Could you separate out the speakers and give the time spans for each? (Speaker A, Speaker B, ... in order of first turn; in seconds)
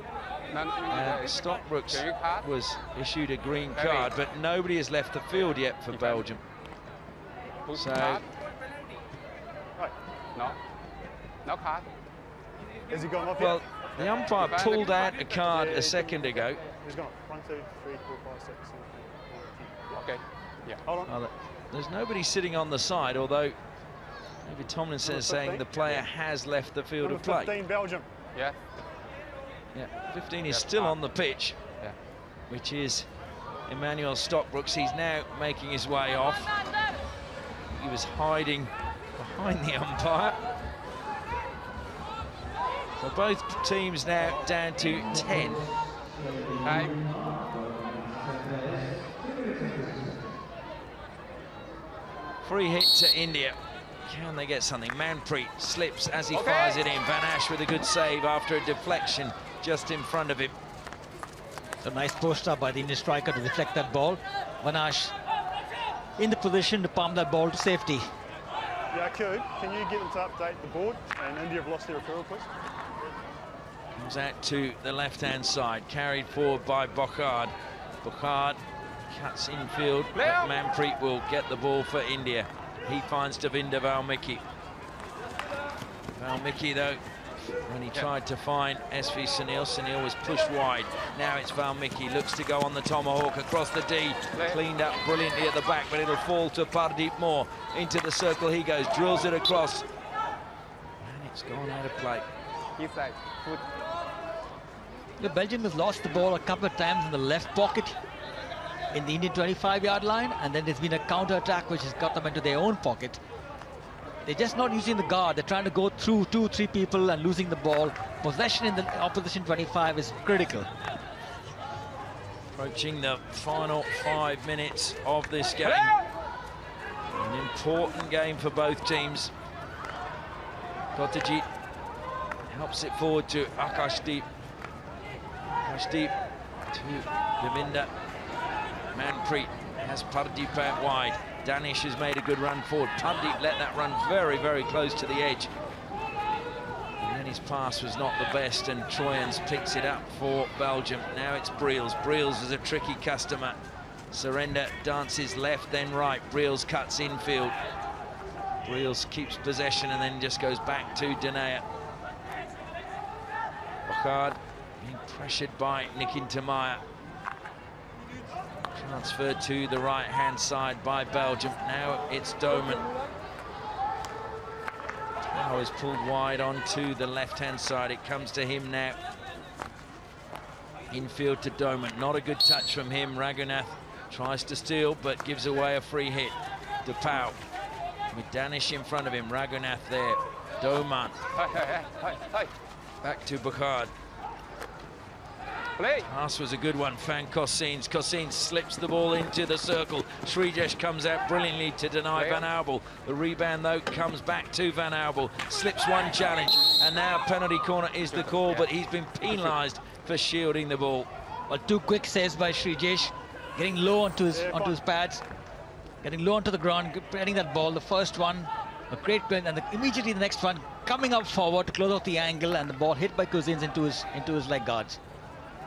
Speaker A: 0.5-2.5, 3.8-4.1, 5.9-6.2, 7.7-8.2, 11.4-11.9, 14.5-15.1, 19.9-20.8, 30.5-31.0, 31.7-31.9, 46.6-47.0, 56.3-56.8, 80.2-80.4, 94.3-94.6, 102.8-103.7, 191.3-192.5, 195.8-196.1, 202.2-202.4, 208.1-208.7
Speaker B: 0.9-6.4, 7.7-8.2, 13.4-16.6, 21.1-23.6, 24.4-27.6, 29.7-31.6, 32.5-33.1, 33.7-36.5, 37.7-40.4, 43.0-45.6, 52.4-60.5, 74.0-84.4, 86.2-87.0, 87.6-99.8, 101.0-102.2, 122.5-126.0, 127.1-129.3, 130.9-131.5, 132.5-134.2, 135.5-136.1, 136.7-137.9, 138.9-145.5, 147.0-153.6, 154.1-157.6, 158.6-161.6, 163.8-166.8, 168.7-172.8, 175.2-179.0, 180.9-187.4, 188.1-191.2, 193.0-193.9, 196.0-211.1
Speaker C: 12.9-13.6, 15.4-19.8, 20.9-21.1, 25.1-25.8, 27.0-28.1, 68.9-72.5, 214.3-214.8
Speaker D: 61.8-65.1, 66.2-68.1, 105.2-108.0, 108.9-113.2, 114.2-120.7, 211.5-215.2, 216.0-225.0